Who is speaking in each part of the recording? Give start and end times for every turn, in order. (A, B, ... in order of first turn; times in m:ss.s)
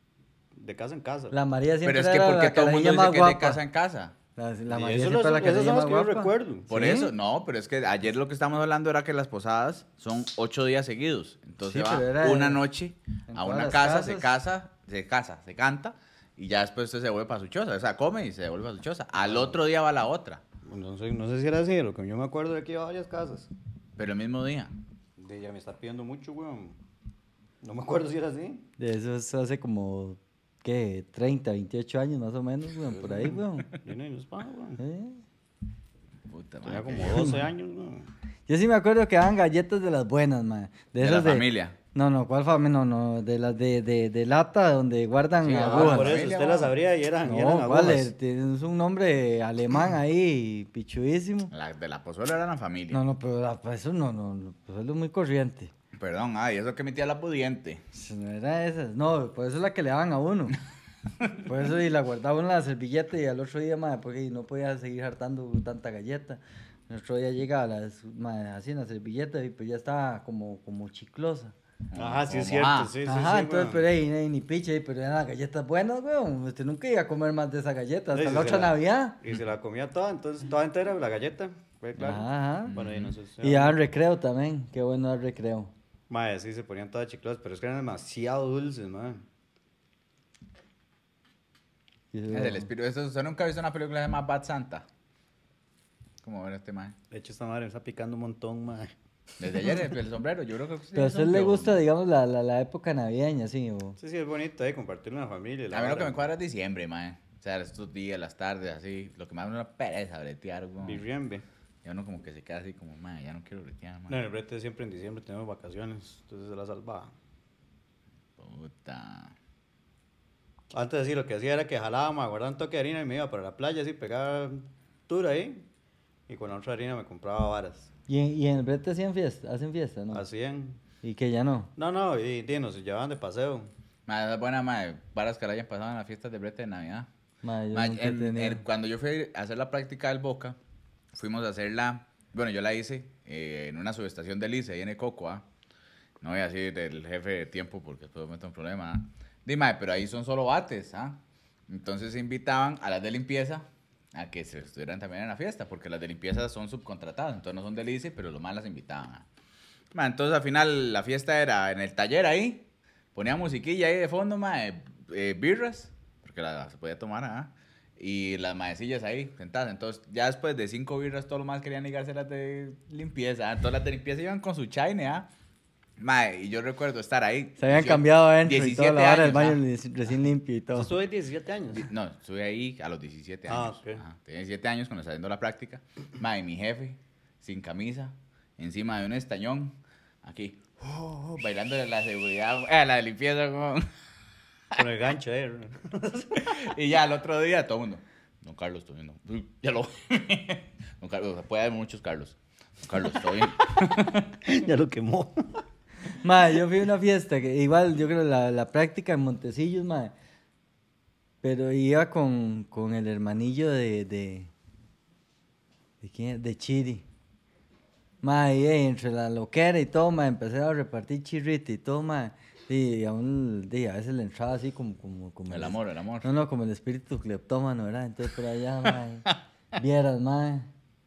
0:00.6-0:01.4 A
0:01.3-0:03.6 B
0:01.8-0:04.2 C
0:04.4-0:07.1 B
0:04.7-0:06.7 A
0:06.7-0:20.4 C
0:11.6-0:12.6 B
0:13.3-0:14.3 B
0:19.2-0:19.6 A
0:20.7-0:23.5 A
0:24.0-0:24.8 C
0:25.2-0:26.8 A
0:27.6-0:28.7 A
0:28.8-0:33.7 B
0:33.0-0:34.8 A
0:34.8-0:35.2 B
0:36.3-0:37.3 C
0:36.6-0:38.1 A
0:37.1-0:37.4 B
0:38.5-0:46.2 B
0:41.0-0:41.8 C
0:45.4-0:46.7 C
0:45.6-0:48.1 A
0:47.2-0:51.5 B
0:51.5-0:53.0 C
0:52.9-0:55.7 B
0:55.9-0:57.8 C
0:57.9-1:00.6 B
1:01.4-1:11.5 B
1:11.9-1:12.9 C
1:12.0-1:13.9 A
1:13.0-1:19.2 B
1:18.1-1:23.8 A
1:22.0-1:22.8 B
1:22.7-1:23.1 C
1:23.4-1:25.7 B
1:26.1-1:29.2 A
1:32.1-1:32.7 B
1:32.3-1:34.9 C
1:36.2-1:37.0 C
1:37.1-1:38.9 A
1:39.4-1:41.8 C
1:41.0-1:44.0 B
1:44.0-1:46.2 A
1:45.7-1:51.0 C
1:50.8-1:51.4 A
1:51.8-1:54.2 C
1:54.1-1:57.1 A
1:58.4-1:59.4 C
2:00.7-2:05.7 A
2:06.3-2:07.9 A
2:08.1-2:10.2 B
2:10.1-2:10.8 A
2:11.0-2:11.7 B
2:11.8-2:13.7 A
2:14.1-2:17.1 C
2:17.4-2:18.6 B
2:17.7-2:20.6 C
2:21.1-2:25.4 C
2:26.2-2:39.3 C
2:39.9-2:55.3 C
2:56.0-2:59.6 C
2:57.6-3:00.9 B
3:00.8-3:01.9 A
3:01.7-3:13.9 C
3:03.5-3:04.0 A
3:14.8-3:16.6 A
3:16.4-3:24.3 C
3:24.4-3:25.5 A
3:26.2-3:30.1 B
3:31.4-3:34.5 B
3:36.0-3:37.0 B
3:38.2-3:50.7 B
3:45.5-3:46.3 C